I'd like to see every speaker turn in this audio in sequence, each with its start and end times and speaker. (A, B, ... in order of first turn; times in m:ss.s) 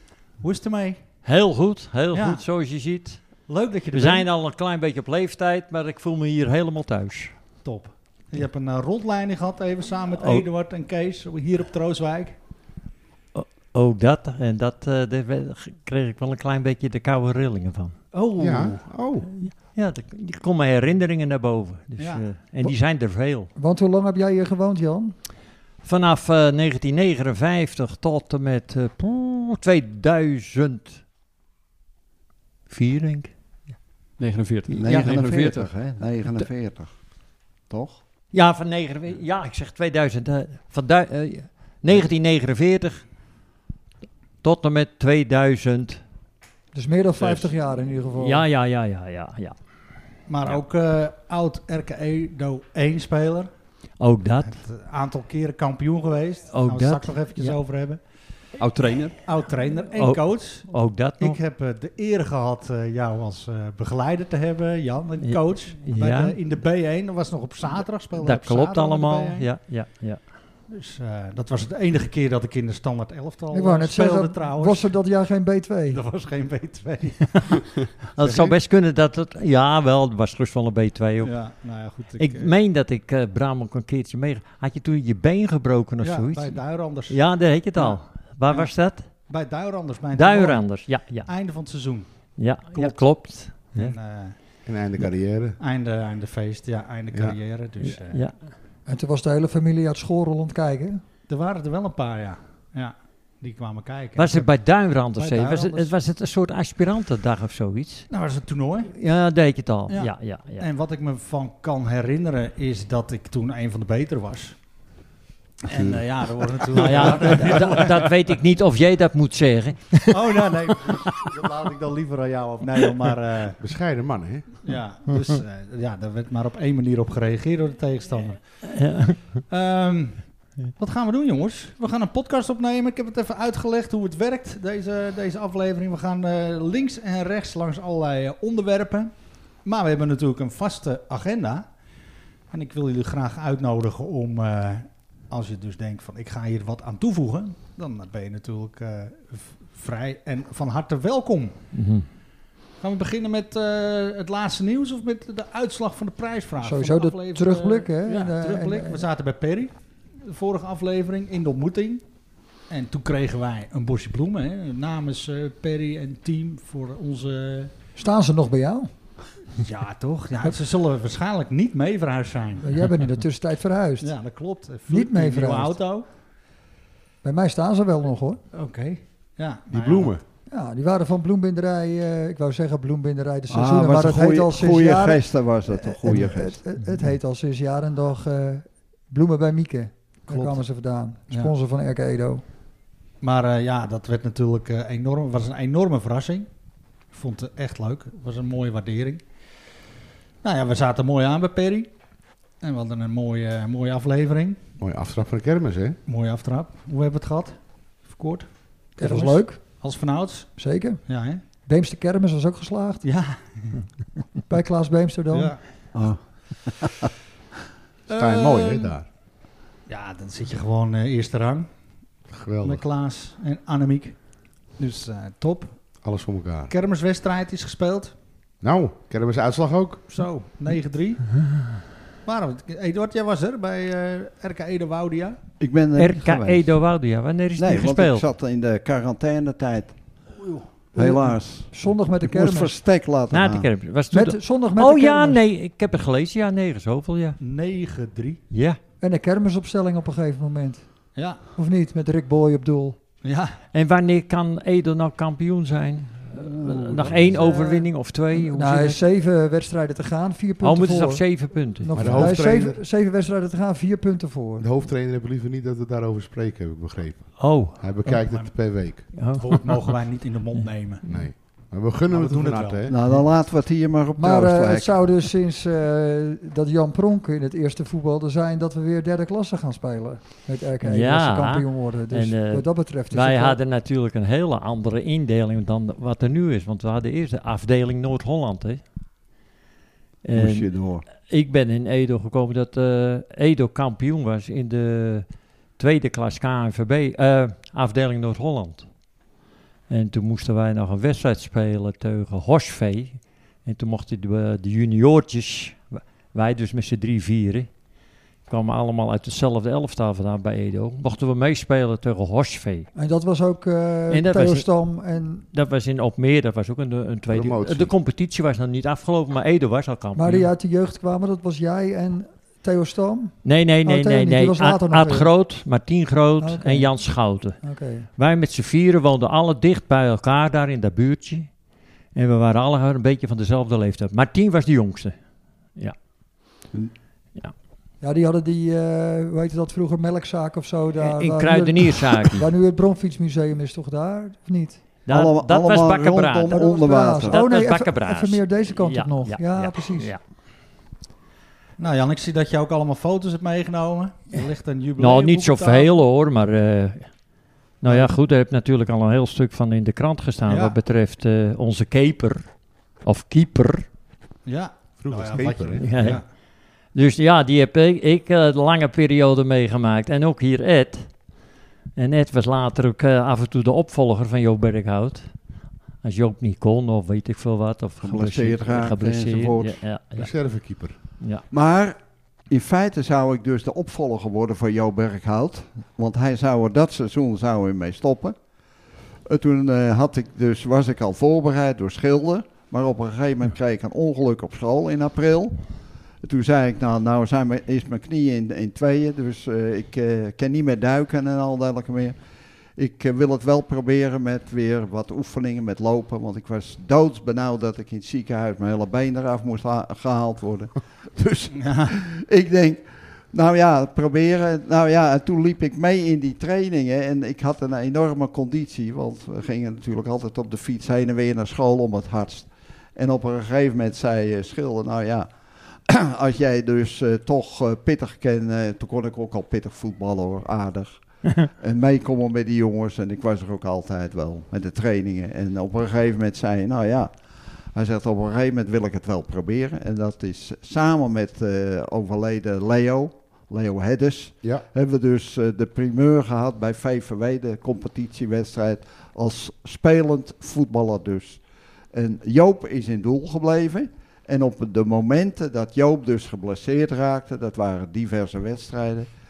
0:00.4-0:01.0 A
0:01.2-0:07.3 B
0:02.1-0:02.4 A
0:03.4-0:04.3 A
0:07.6-0:12.3 A
0:10.2-0:10.4 B
0:13.3-0:18.0 B
0:18.1-0:18.8 A
0:18.4-0:19.3 C
0:19.3-0:23.5 B
0:22.0-0:22.3 A
0:23.5-0:25.1 D
0:25.8-0:31.0 B
0:32.7-0:33.3 B
0:34.2-0:35.7 E
0:34.7-0:37.0 F
0:37.7-0:38.0 F
0:38.3-0:43.0 B
0:44.4-0:46.0 B
0:46.7-0:48.4 D
0:48.2-0:49.9 B
0:50.3-0:53.5 A
0:54.0-0:54.6 B
0:54.4-0:58.0 A
0:56.5-0:57.6 B
0:58.6-0:59.2 E
0:59.2-1:09.5 A
0:59.9-1:01.4 B
1:05.2-1:06.4 B
1:08.2-1:10.3 B
1:10.7-1:14.9 A
1:13.5-1:16.0 D
1:15.9-1:18.6 A
1:18.1-1:29.1 B
1:21.2-1:22.5 A
1:26.0-1:27.2 A
1:27.7-1:34.4 A
1:30.1-1:31.3 B
1:32.4-1:34.0 B
1:34.6-1:35.6 C
1:35.6-1:38.3 A
1:37.1-1:37.4 C
1:37.9-1:38.3 B
1:38.9-1:41.0 D
1:41.3-1:44.5 A
1:44.2-1:48.1 B
1:45.1-1:45.9 A
1:48.1-1:48.9 A
1:48.9-1:50.6 B
1:49.9-1:54.6 A
1:55.7-1:58.1 A
1:55.7-1:56.0 C
1:56.8-2:00.6 B
2:00.1-2:03.6 A
2:03.6-2:04.6 C
2:04.6-2:08.4 A
2:08.7-2:09.4 B
2:09.5-2:21.7 A
2:22.5-2:31.6 A
2:31.7-2:32.1 B
2:32.8-2:42.0 A
2:36.6-2:39.1 D
2:42.7-2:47.7 A
2:48.0-2:48.9 D
2:49.6-2:52.8 A
2:52.6-2:54.2 D
2:54.0-2:56.0 A
2:54.9-2:55.8 D
2:57.2-2:58.4 D
2:58.5-3:00.2 A
2:59.7-3:00.2 C
3:00.5-3:12.4 D
3:03.5-3:06.6 F
3:10.3-3:10.6 A
3:13.2-3:16.5 A
3:17.1-3:19.2 A
3:20.4-3:21.9 A
3:22.6-3:24.6 A
3:24.8-3:26.0 C
3:26.1-3:30.6 A
3:29.0-3:29.6 D
3:30.6-3:31.0 D
3:31.1-3:31.4 A
3:31.6-3:33.0 D
3:33.0-3:33.8 A
3:34.5-3:35.6 D
3:35.3-3:35.6 A
3:35.9-3:37.0 F
3:38.1-3:38.9 A
3:38.1-3:39.0 C
3:39.9-3:41.7 A
3:42.3-3:42.8 C
3:42.6-3:44.2 A
3:44.8-3:45.8 A
3:46.0-3:46.7 C
3:46.7-3:48.1 A
3:48.6-3:50.1 C
3:50.1-3:51.4 A
3:52.2-3:55.4 A
3:55.6-3:56.8 F
3:56.0-3:58.2 B
3:57.6-4:00.0 F
4:00.4-4:00.7 A
4:00.9-4:03.7 F
4:00.9-4:02.7 D
4:03.3-4:07.4 B
4:04.1-4:05.4 D
4:07.4-4:08.4 A
4:08.5-4:08.8 B
4:09.0-4:13.0 D
4:11.2-4:11.4 A
4:13.2-4:13.5 A
4:13.7-4:19.0 B
4:16.5-4:17.6 A
4:18.3-4:24.7 D
4:20.6-4:22.3 B
4:21.9-4:22.8 C
4:24.6-4:29.1 C
4:27.4-4:28.1 B
4:28.1-4:32.9 A
4:29.1-4:29.9 B
4:30.5-4:31.3 B
4:31.0-4:33.1 C
4:32.9-4:35.1 F
4:34.2-4:43.6 D
4:40.8-4:48.8 B
4:50.2-4:58.9 B
4:50.3-4:51.1 F
4:59.9-5:07.7 B
5:08.5-5:12.9 B
5:13.0-5:15.5 D
5:14.1-5:14.6 B
5:15.5-5:20.5 B
5:17.3-5:17.9 C
5:20.1-5:25.3 D
5:23.4-5:31.5 B
5:26.4-5:28.1 D
5:32.1-5:35.2 B
5:38.0-5:44.8 D
5:41.0-5:42.5 B
5:45.0-5:50.2 B
5:45.1-5:47.4 F
5:46.5-5:50.1 D
5:51.8-5:56.0 A
5:55.0-5:57.2 B
5:57.8-6:03.9 B
6:00.5-6:00.8 A
6:04.4-6:06.2 A
6:05.0-6:06.1 C
6:05.8-6:06.2 B
6:06.9-6:11.2 B
6:12.0-6:15.3 B
6:16.0-6:21.4 B
6:18.0-6:19.8 F
6:20.1-6:21.1 C
6:21.5-6:28.4 F
6:29.3-6:35.6 F
6:36.2-6:42.2 F
6:42.8-7:05.3 F
6:51.6-6:51.9 A
7:05.9-7:17.1 F
7:17.7-7:31.4 F
7:31.9-7:39.1 F